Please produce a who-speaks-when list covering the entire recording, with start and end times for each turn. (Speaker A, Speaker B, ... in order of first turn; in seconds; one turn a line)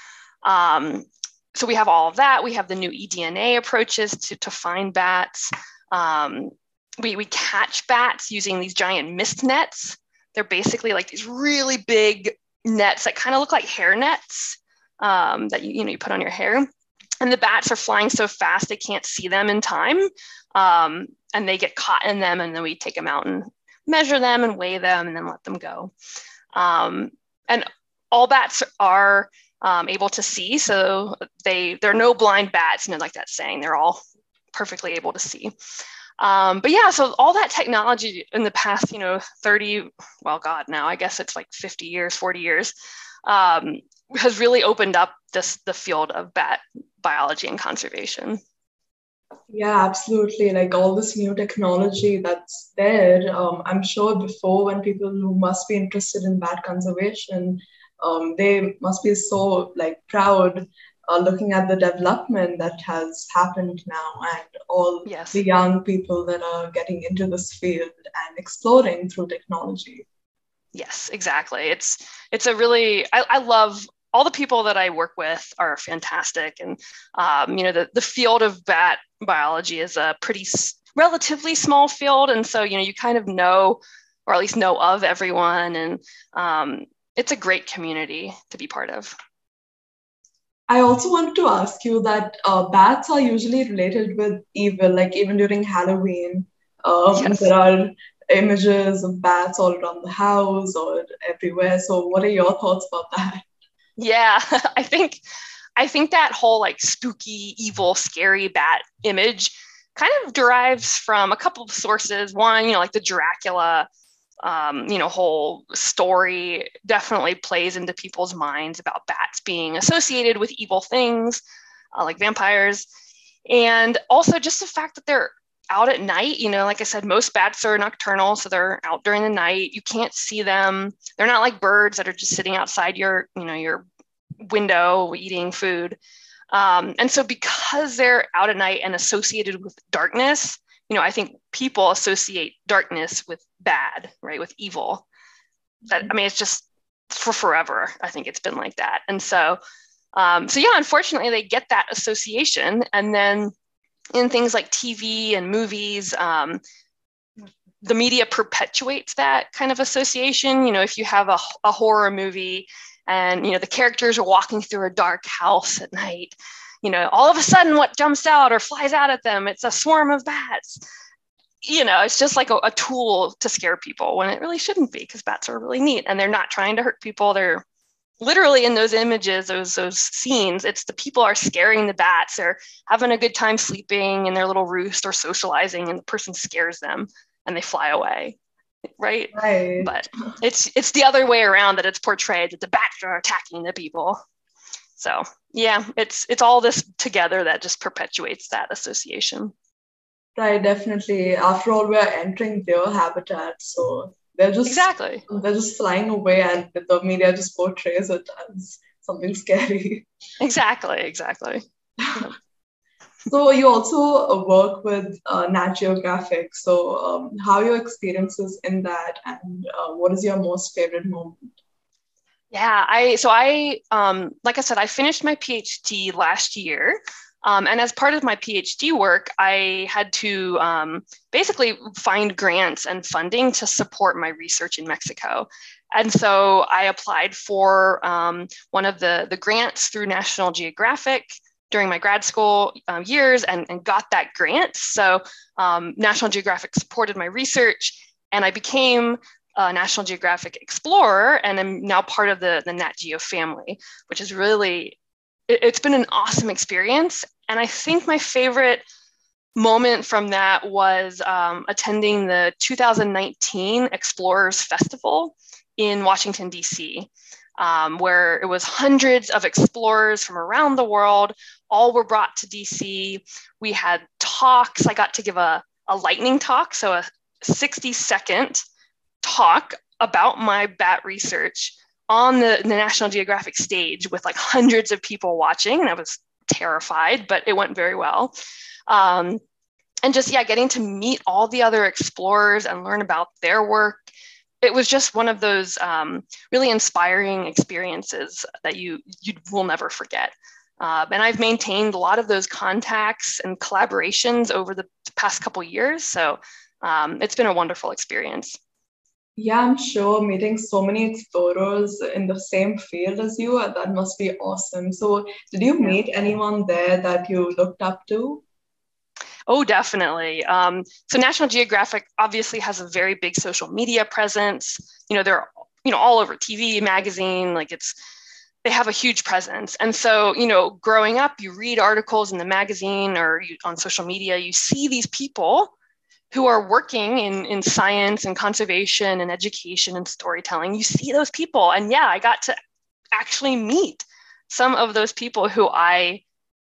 Speaker A: 0.4-16.7
Speaker A: 17.2-25.9
Speaker A: 26.5-34.0
Speaker A: 34.5-35.5
Speaker A: 36.2-42.7
Speaker A: 43.3-48.4
Speaker B: 49.5-70.1
Speaker A: 65.1-65.4
Speaker A: 70.7-89.1
Speaker B: 90.7-103.5
Speaker A: 97.1-97.5
Speaker A: 104.0-105.2
Speaker A: 105.8-113.9
Speaker A: 114.4-121.4
Speaker A: 122.0-122.9
Speaker A: 123.5-133.8
Speaker A: 134.4-136.0
Speaker A: 136.5-145.1
Speaker A: 145.9-149.6
Speaker A: 150.1-153.5
Speaker A: 154.1-156.6
Speaker A: 157.8-170.8
Speaker A: 171.6-177.6
Speaker A: 178.2-188.4
Speaker A: 189.0-194.2
Speaker B: 189.3-189.9
Speaker A: 195.0-199.5
Speaker B: 200.4-210.1
Speaker A: 204.7-205.2
Speaker A: 210.4-211.6
Speaker B: 212.0-212.3
Speaker B: 213.3-221.5
Speaker A: 222.5-255.0
Speaker A: 255.5-258.8
Speaker A: 259.6-278.6
Speaker A: 279.2-288.3
Speaker A: 288.9-289.4
Speaker A: 290.1-294.1
Speaker A: 294.6-308.6
Speaker B: 309.4-318.4
Speaker A: 319.5-327.9
Speaker A: 328.6-335.7
Speaker A: 336.3-342.6
Speaker A: 343.1-346.2